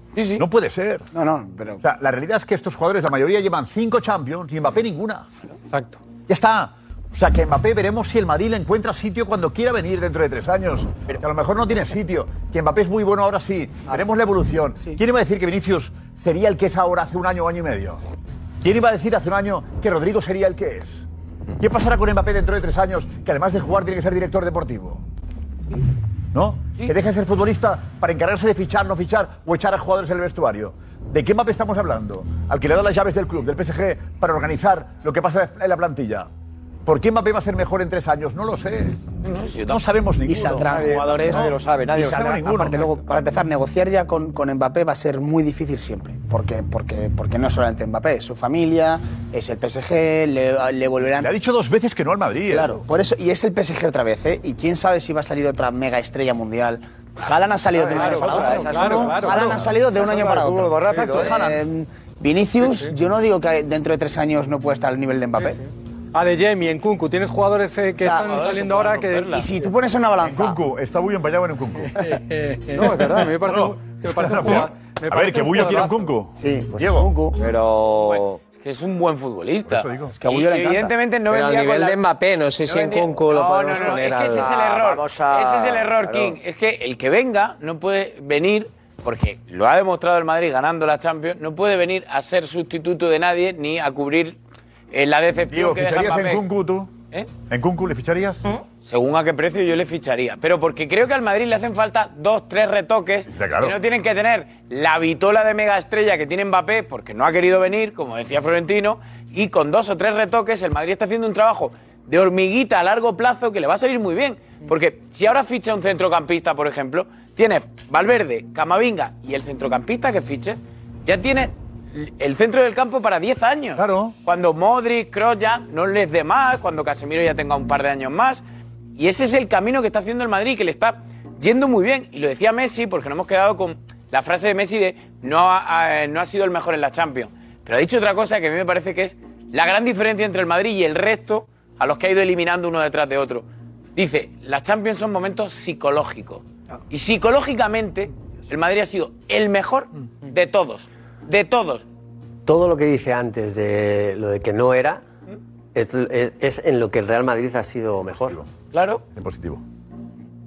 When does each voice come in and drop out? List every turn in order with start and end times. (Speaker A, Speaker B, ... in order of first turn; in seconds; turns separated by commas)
Speaker A: 0.1-0.5, Speaker B: 0.4-1.1, Speaker C: 1.1-1.8, Speaker B: 1.8-5.3, Speaker D: 5.7-6.0, Speaker B: 6.3-18.0, Speaker B: 18.6-21.1, Speaker B: 21.6-25.0, Speaker B: 26.3-36.3, Speaker B: 36.9-39.0, Speaker A: 39.2-39.9, Speaker B: 39.6-42.9, Speaker C: 40.2-51.3, Speaker E: 40.6-42.4, Speaker B: 51.2-52.8, Speaker C: 52.5-65.6, Speaker D: 57.8-59.6, Speaker E: 57.9-61.5, Speaker B: 58.8-59.2, Speaker D: 62.6-62.9, Speaker D: 66.1-69.5, Speaker C: 68.0-68.4, Speaker A: 68.3-69.3, Speaker C: 69.3-70.6, Speaker B: 70.2-72.1, Speaker D: 72.1-76.1, Speaker B: 73.4-77.1, Speaker C: 76.3-77.4, Speaker E: 77.4-78.4, Speaker A: 78.0-82.0, Speaker B: 79.7-80.2, Speaker C: 80.1-81.0, Speaker F: 81.3-84.7, Speaker A: 82.7-94.4, Speaker E: 84.4-86.4, Speaker A: 94.9-96.4, Speaker B: 95.4-96.9, Speaker B: 97.5-98.4, Speaker A: 98.8-128.4, Speaker B: 103.3-103.8, Speaker B: 123.8-124.2, Speaker A: 129.0-143.4, Speaker A: 144.0-151.8, Speaker G: 152.5-155.0, Speaker G: 155.8-158.4, Speaker A: 158.7-159.0, Speaker B: 159.1-159.6